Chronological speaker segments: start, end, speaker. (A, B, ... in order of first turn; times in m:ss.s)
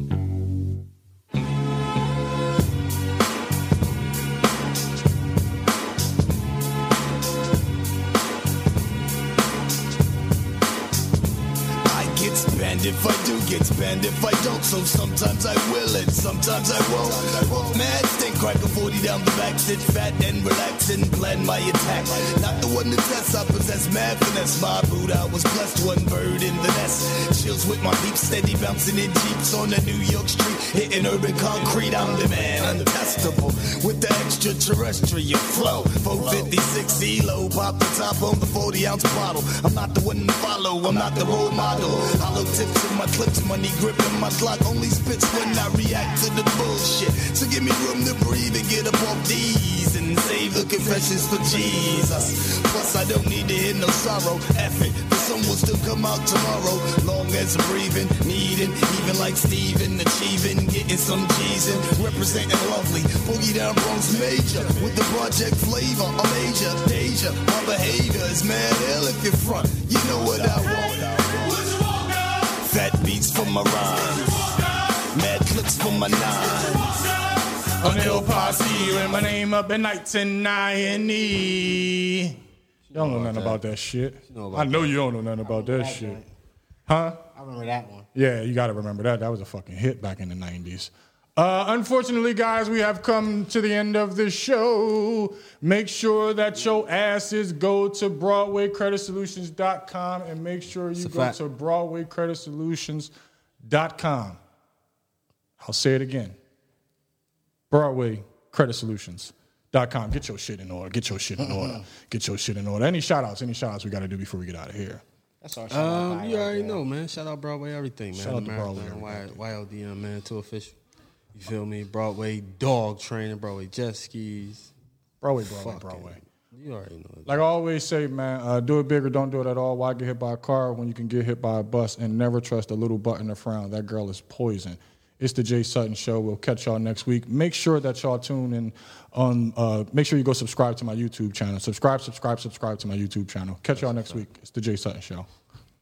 0:11.8-1:19.3 A
1:17.8-1:22.4 B
1:22.9-1:23.6 C
1:22.9-1:26.2 B
1:24.3-1:25.0 C
1:25.4-1:26.3 D
1:26.9-1:27.2 B
1:27.3-1:28.1 D
1:28.1-1:43.1 B
1:41.0-1:41.4 C
1:43.6-1:44.4 B
1:45.6-1:46.4 B
1:47.7-1:55.0 B
1:55.4-1:56.8 D
1:55.7-2:00.8 C
1:58.1-1:59.4 B
2:01.3-2:04.7 C
2:05.2-2:06.2 B
2:05.4-2:07.4 C
2:07.2-2:25.3 B
2:23.8-2:24.2 C